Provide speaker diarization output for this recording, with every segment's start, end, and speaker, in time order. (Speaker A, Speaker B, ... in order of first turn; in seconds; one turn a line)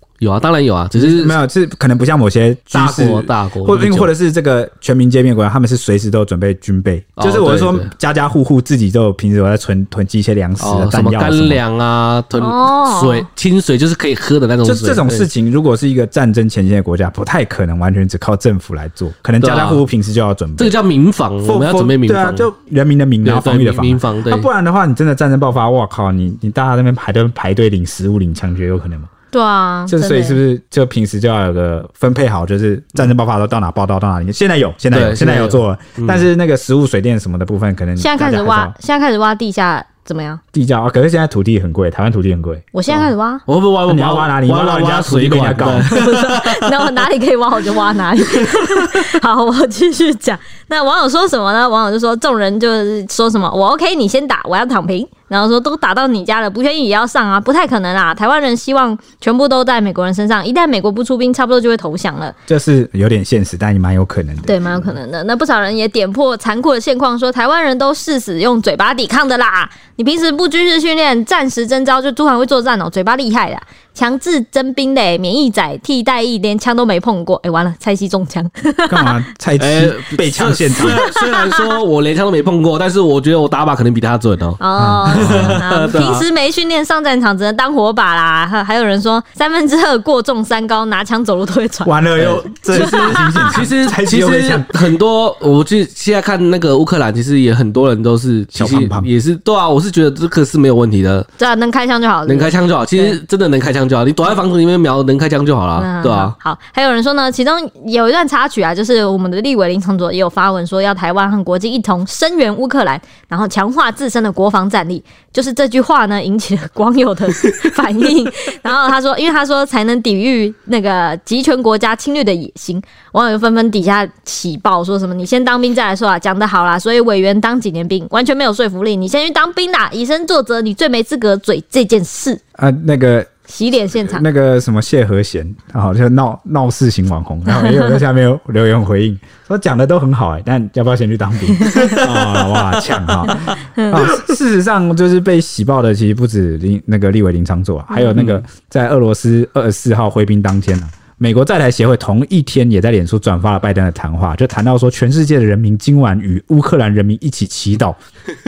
Speaker A: 0.2-1.4
Speaker B: 1.0-11.6
Speaker A: 2.7-4.1
Speaker A: 7.2-7.9
Speaker A: 10.6-15.3
Speaker C: 12.4-13.3
Speaker B: 14.6-20.8
Speaker A: 19.4-19.8
Speaker A: 20.6-22.5
Speaker B: 21.4-29.1
Speaker A: 23.2-24.5
Speaker C: 29.3-30.4
Speaker B: 29.9-38.8
Speaker A: 34.9-36.3
Speaker C: 38.0-40.4
Speaker B: 40.5-42.7
Speaker C: 42.7-43.4
Speaker A: 42.9-46.9
Speaker B: 43.9-46.0
Speaker C: 45.9-62.4
Speaker A: 48.4-49.0
Speaker B: 62.5-64.9
Speaker C: 64.5-79.2
Speaker B: 78.9-81.1
Speaker A: 79.6-86.2
Speaker C: 80.9-81.6
Speaker C: 84.6-92.0
Speaker B: 84.8-85.6
Speaker B: 91.8-95.0
Speaker A: 92.2-101.3
Speaker C: 92.7-93.5
Speaker B: 98.5-99.1
Speaker C: 101.4-103.2
Speaker A: 102.3-106.3
Speaker C: 105.8-132.4
Speaker B: 132.6-133.3
Speaker C: 133.5-134.2
Speaker B: 134.0-158.0
Speaker C: 137.5-137.9
Speaker C: 141.6-142.0
Speaker A: 141.8-142.1
Speaker C: 143.6-144.1
Speaker C: 147.9-148.2
Speaker A: 148.1-148.4